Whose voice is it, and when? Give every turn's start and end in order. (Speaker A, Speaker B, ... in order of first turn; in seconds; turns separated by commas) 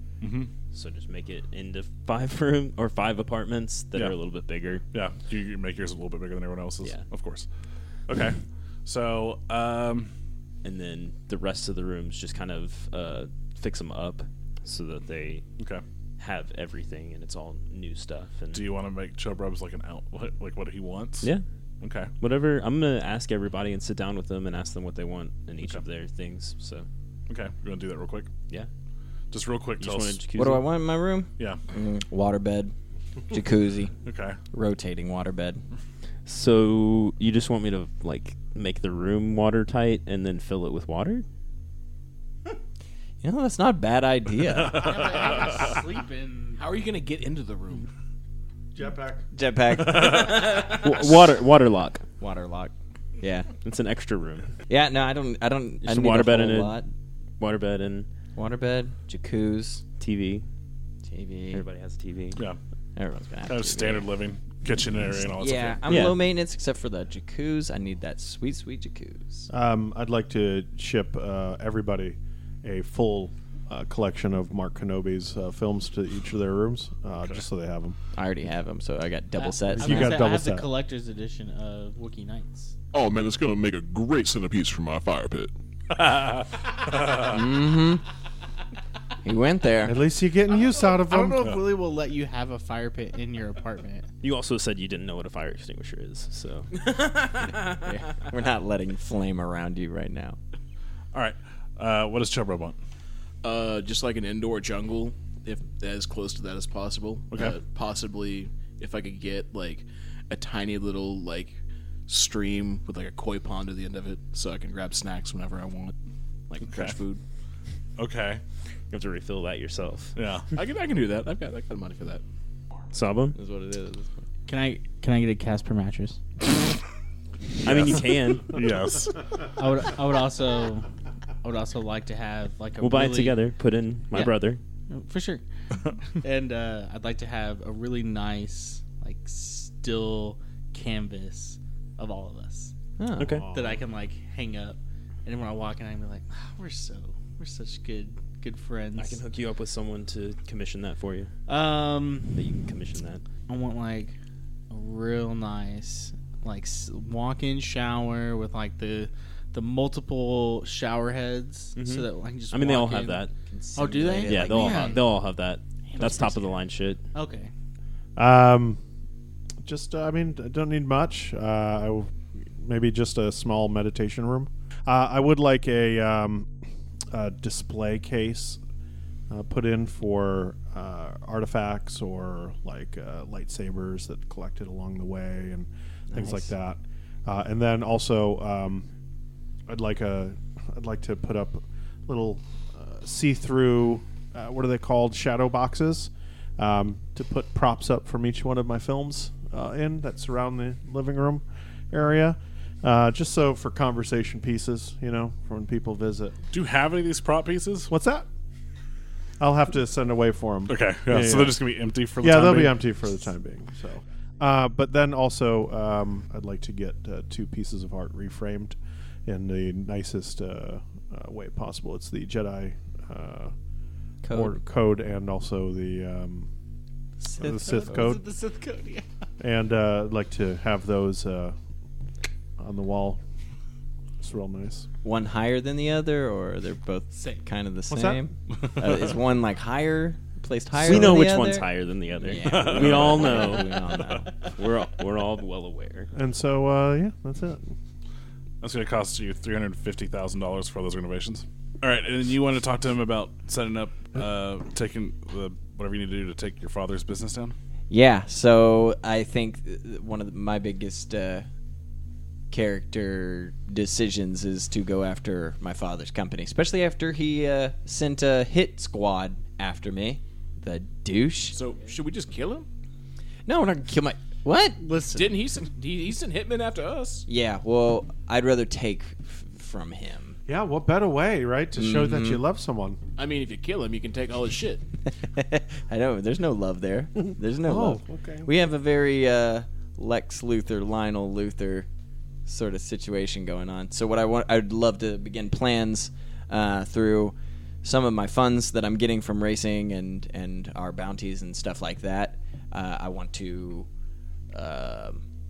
Speaker A: 0.2-0.5, Speaker B: 0.7-4.8, Speaker A: 4.9-7.5, Speaker A: 8.1-10.1, Speaker B: 10.6-15.5, Speaker B: 16.2-18.6, Speaker A: 18.5-22.1, Speaker B: 22.2-26.9, Speaker A: 27.3-28.3, Speaker A: 29.3-30.2, Speaker B: 29.8-30.6, Speaker C: 30.4-32.7, Speaker C: 33.3-33.9, Speaker A: 34.1-34.4, Speaker C: 34.5-35.6, Speaker B: 36.3-41.2, Speaker C: 43.2-45.1, Speaker D: 44.7-46.6, Speaker E: 46.6-47.9, Speaker F: 48.7-49.2, Speaker C: 49.3-50.9, Speaker B: 50.4-52.0, Speaker C: 52.2-53.5, Speaker B: 53.6-54.5, Speaker C: 54.7-56.9, Speaker B: 55.8-56.8, Speaker B: 57.4-58.1, Speaker C: 58.4-59.8, Speaker B: 60.0-60.5, Speaker C: 61.1-61.6, Speaker B: 61.5-62.4, Speaker C: 63.0-64.1, Speaker A: 63.5-66.1, Speaker C: 65.4-69.5, Speaker B: 65.9-66.2, Speaker F: 69.5-78.0, Speaker C: 78.1-80.2, Speaker D: 79.4-82.7, Speaker F: 79.7-80.7, Speaker G: 82.9-85.5, Speaker A: 85.9-86.5, Speaker C: 87.2-88.0, Speaker C: 89.2-90.0, Speaker F: 89.8-91.5, Speaker D: 90.7-94.1, Speaker B: 94.2-97.8, Speaker C: 97.8-100.4, Speaker A: 101.1-102.8, Speaker E: 103.4-111.6, Speaker A: 107.3-107.6, Speaker E: 112.1-116.0, Speaker E: 116.5-117.2, Speaker A: 116.6-117.0, Speaker A: 118.0-118.4, Speaker B: 118.9-120.2, Speaker A: 120.2-120.5, Speaker E: 120.5-122.2, Speaker B: 122.9-123.4, Speaker C: 123.4-124.2, Speaker D: 124.5-126.2, Speaker B: 127.6-128.5, Speaker A: 127.7-128.0, Speaker A: 128.5-129.2, Speaker D: 129.6-130.8, Speaker D: 131.4-133.4, Speaker B: 132.8-134.6, Speaker D: 134.9-135.4, Speaker D: 136.2-142.7, Speaker C: 143.0-143.5, Speaker B: 143.2-143.5, Speaker D: 143.5-149.2, Speaker F: 143.5-143.8, Speaker B: 149.0-151.4, Speaker D: 151.5-152.4, Speaker B: 152.3-153.2, Speaker D: 153.5-154.2, Speaker D: 154.7-165.1, Speaker B: 161.8-163.3, Speaker C: 163.5-165.0, Speaker B: 164.3-167.0, Speaker D: 165.9-166.4, Speaker C: 166.0-166.2, Speaker D: 167.1-167.5, Speaker F: 168.2-168.8, Speaker F: 169.6-176.6, Speaker F: 177.1-178.6, Speaker F: 179.3-188.9, Speaker C: 186.1-186.5, Speaker F: 189.7-206.4, Speaker A: 206.5-207.9, Speaker F: 207.9-208.3, Speaker F: 209.4-211.7, Speaker A: 210.7-212.9, Speaker F: 212.2-223.5, Speaker C: 224.2-224.6, Speaker F: 224.3-226.5, Speaker C: 227.2-228.2, Speaker F: 227.4-228.2, Speaker D: 227.4-229.1, Speaker F: 229.4-231.6, Speaker F: 232.6-233.2, Speaker F: 234.2-234.9, Speaker C: 235.0-244.3, Speaker D: 237.2-237.4, Speaker F: 237.9-238.3, Speaker B: 240.8-246.1, Speaker A: 242.4-244.3, Speaker F: 246.1-247.8, Speaker A: 248.6-257.6, Speaker C: 257.9-261.5, Speaker C: 262.5-271.6, Speaker E: 271.5-272.7, Speaker C: 273.5-274.8, Speaker D: 274.8-275.3, Speaker E: 275.1-277.3, Speaker C: 277.3-280.4, Speaker F: 280.5-283.0, Speaker C: 281.8-282.4, Speaker E: 283.2-284.8, Speaker C: 285.2-291.9, Speaker F: 287.6-288.5, Speaker C: 292.5-303.9, Speaker C: 304.5-305.2